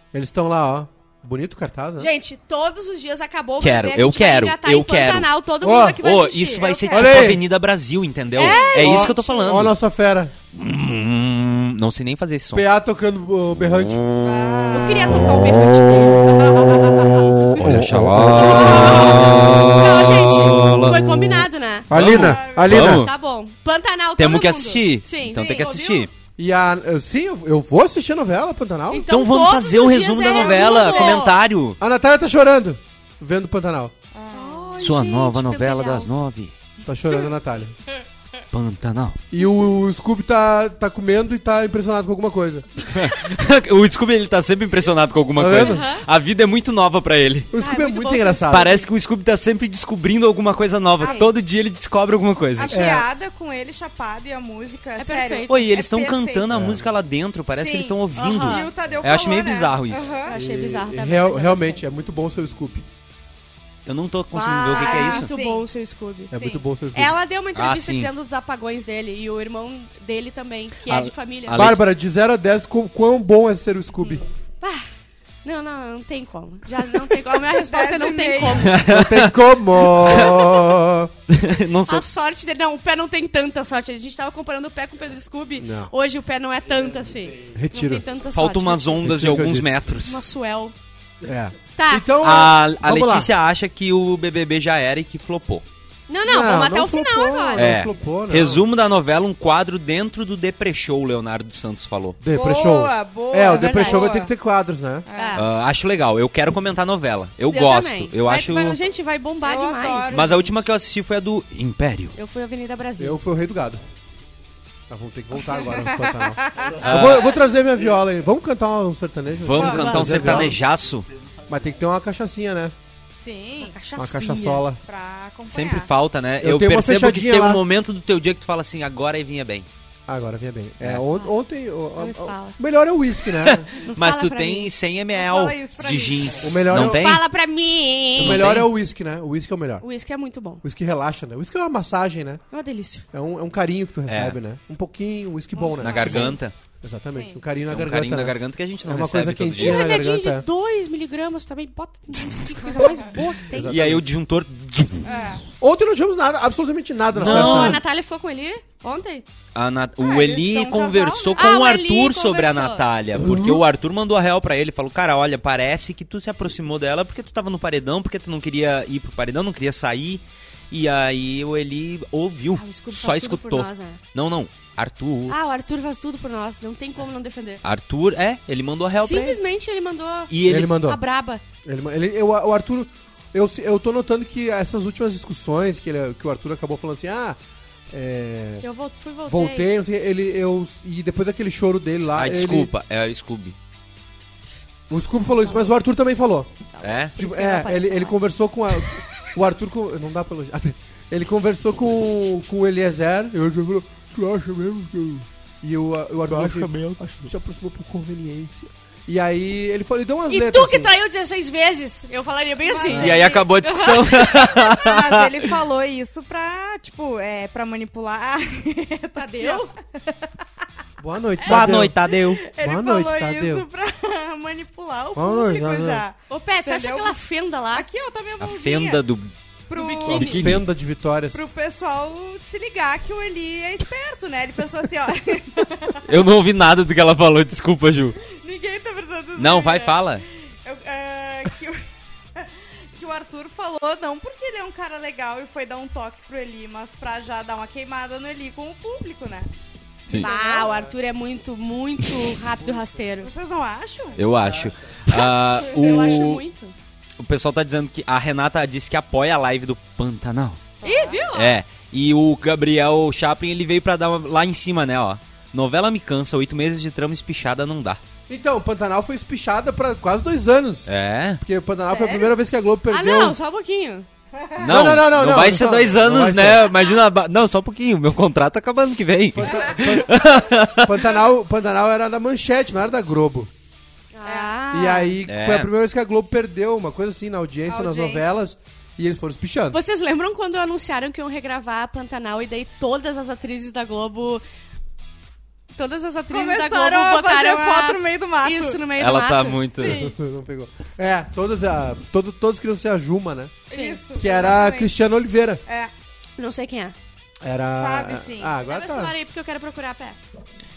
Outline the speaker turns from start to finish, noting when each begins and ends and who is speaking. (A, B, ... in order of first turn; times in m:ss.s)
0:00.1-0:02.1 A
0:02.0-0:06.7 B
0:03.6-0:05.3 C
0:05.6-0:06.0 A
0:06.0-0:09.8 C
0:06.6-0:07.4 D
0:06.9-0:07.5 A
0:08.3-0:09.4 B
0:08.6-0:10.3 A
0:10.5-0:12.6 C
0:12.5-0:14.1 A
0:14.2-0:15.2 D
0:14.7-0:16.4 B
0:16.3-0:17.3 D
0:17.5-0:23.1 C
0:17.6-0:19.6 A
0:18.3-0:21.9 B
0:21.9-0:23.1 A
0:22.0-0:22.8 D
0:22.8-0:26.1 B
0:24.2-0:26.1 C
0:26.4-0:29.1 A
0:28.9-0:31.4 B
0:29.1-0:31.8 C
0:30.3-0:31.2 D
0:31.8-0:33.9 A
0:34.1-0:34.8 D
0:34.3-0:36.1 B
0:34.8-0:36.5 C
0:36.8-0:37.8 A
0:38.5-0:39.2 C
0:39.3-0:42.7 A
0:42.9-0:47.5 C
0:45.4-0:45.9 A
0:45.6-0:46.0 B
0:47.5-0:48.8 A
0:47.6-0:48.7 B
0:48.5-0:52.9 C
0:51.0-0:51.3 D
0:51.0-0:51.3 B
0:52.6-0:56.7 D
0:52.7-0:53.1 A
0:55.0-0:55.7 B
0:55.5-1:00.1 C
0:56.5-0:56.9 A
0:57.5-1:00.4 D
0:58.2-0:58.7 B
1:00.2-1:01.8 B
1:00.3-1:02.8 A
1:03.9-1:05.3 C
1:04.3-1:06.3 B
1:04.7-1:05.7 D
1:06.3-1:07.2 A
1:06.3-1:06.6 D
1:06.9-1:11.7 B
1:07.6-1:08.1 C
1:10.9-1:11.8 C
1:11.5-1:14.2 A
1:14.6-1:14.9 B
1:15.4-1:18.8 B
1:17.6-1:18.8 D
1:18.6-1:20.7 C
1:18.8-1:21.1 A
1:21.3-1:22.1 C
1:21.8-1:29.1 B
1:25.6-1:25.9 A
1:27.5-1:28.0 A
1:28.3-1:30.2 C
1:29.0-1:29.8 A
1:30.0-1:30.8 B
1:31.2-1:33.3 A
1:31.8-1:32.1 B
1:32.2-1:35.6 C
1:36.1-1:37.8 B
1:36.2-1:38.7 A
1:37.6-1:42.2 C
1:42.2-1:45.1 A
1:42.3-1:44.3 D
1:43.4-1:44.1 B
1:45.1-1:45.4 D
1:45.2-1:45.5 B
1:45.4-1:48.8 C
1:47.5-1:50.5 B
1:49.4-1:50.4 D
1:50.1-1:52.2 C
1:52.2-1:53.2 B
1:53.0-1:53.8 A
1:54.9-2:00.6 A
1:55.5-1:57.4 D
1:56.8-1:57.4 C
1:59.4-2:01.1 C
1:59.6-2:00.4 D
1:59.6-2:00.4 B
2:01.5-2:02.8 A
2:03.1-2:03.8 D
2:03.6-2:04.7 B
2:04.0-2:04.8 A
2:04.8-2:05.9 D
2:05.5-2:09.7 C
2:06.4-2:07.6 A
2:10.1-2:13.7 A
2:12.0-2:12.6 B
2:13.4-2:17.2 C
2:13.8-2:14.7 B
2:15.1-2:16.4 D
2:16.4-2:17.2 A
2:16.7-2:18.4 B
2:18.2-2:18.7 C
2:18.2-2:19.8 A
2:19.8-2:20.6 B
2:20.6-2:22.4 A
2:22.5-2:23.1 B
2:23.1-2:30.5 A
2:24.1-2:24.4 C
2:25.6-2:26.4 D
2:25.8-2:26.5 C
2:27.1-2:27.4 D
2:27.7-2:29.9 C
2:29.6-2:33.8 B
2:33.5-2:34.1 A
2:33.7-2:35.3 C
2:35.0-2:35.4 D
2:35.6-2:37.8 A
2:37.2-2:37.8 C
2:37.2-2:39.3 B
2:39.6-2:55.4 C
2:40.0-2:41.5 D
2:41.4-2:42.9 B
2:43.2-2:43.6 A
2:52.5-2:54.0 B
2:55.3-2:57.6 B
2:57.6-2:59.4 C
2:59.0-3:01.4 B
3:00.3-3:00.8 C
3:00.4-3:01.0 A
3:01.6-3:07.4 A
3:07.9-3:08.7 A
3:08.6-3:09.7 B
3:09.3-3:12.7 A
3:12.2-3:13.6 C
3:14.9-3:16.5 A
3:15.4-3:15.7 B
3:16.7-3:18.2 B
3:16.8-3:17.1 C
3:17.2-3:30.9 A
3:26.3-3:27.3 C
3:30.3-3:33.3 B
3:32.6-3:40.2 D
3:32.9-3:33.2 A
3:32.9-3:35.6 C
3:39.2-3:39.7 B
3:41.0-3:42.0 A
3:41.4-3:47.2 D
3:41.5-3:42.4 C
3:42.6-3:43.7 A
3:45.2-3:46.0 A
3:46.3-3:47.9 B
3:47.7-3:49.0 D
3:48.4-3:49.3 C
3:49.7-3:50.5 D
3:49.7-3:50.4 B
3:50.1-3:50.6 C
3:50.2-3:51.4 A
3:51.3-3:56.1 D
3:56.1-3:58.2 C
3:58.3-4:01.8 D
3:59.4-4:00.2 C
4:02.4-4:09.5 D
4:10.1-4:10.9 D
4:10.1-4:13.3 B
4:12.6-4:13.0 A
4:13.2-4:14.3 D
4:14.2-4:16.4 C
4:14.4-4:14.8 A
4:15.1-4:16.8 B
4:15.6-4:16.1 D
4:17.2-4:20.6 C
4:20.8-4:21.3 D
4:20.8-4:21.6 B
4:21.3-4:28.0 C
4:28.3-4:33.4 A
4:30.9-4:31.4 C
4:31.9-4:32.3 D
4:32.9-4:34.1 B
4:34.4-4:34.8 D
4:34.6-4:41.0 C
4:34.7-4:36.7 A
4:39.3-4:43.5 A
4:39.5-4:39.8 D
4:44.1-4:45.2 B
4:44.2-4:44.6 D
4:44.7-4:49.8 A
4:45.3-4:45.7 C
4:47.7-4:48.3 D
4:49.7-4:54.4 B
4:55.8-4:59.6 B
4:56.3-4:58.8 D
4:59.0-5:00.0 C
4:59.7-5:00.2 D
4:59.9-5:03.6 A
5:03.7-5:04.9 D
5:03.7-5:04.0 B
5:04.2-5:05.6 A
5:05.7-5:05.9 D
5:06.4-5:07.0 B
5:07.4-5:09.1 A
5:07.8-5:08.6 D
5:08.6-5:10.2 B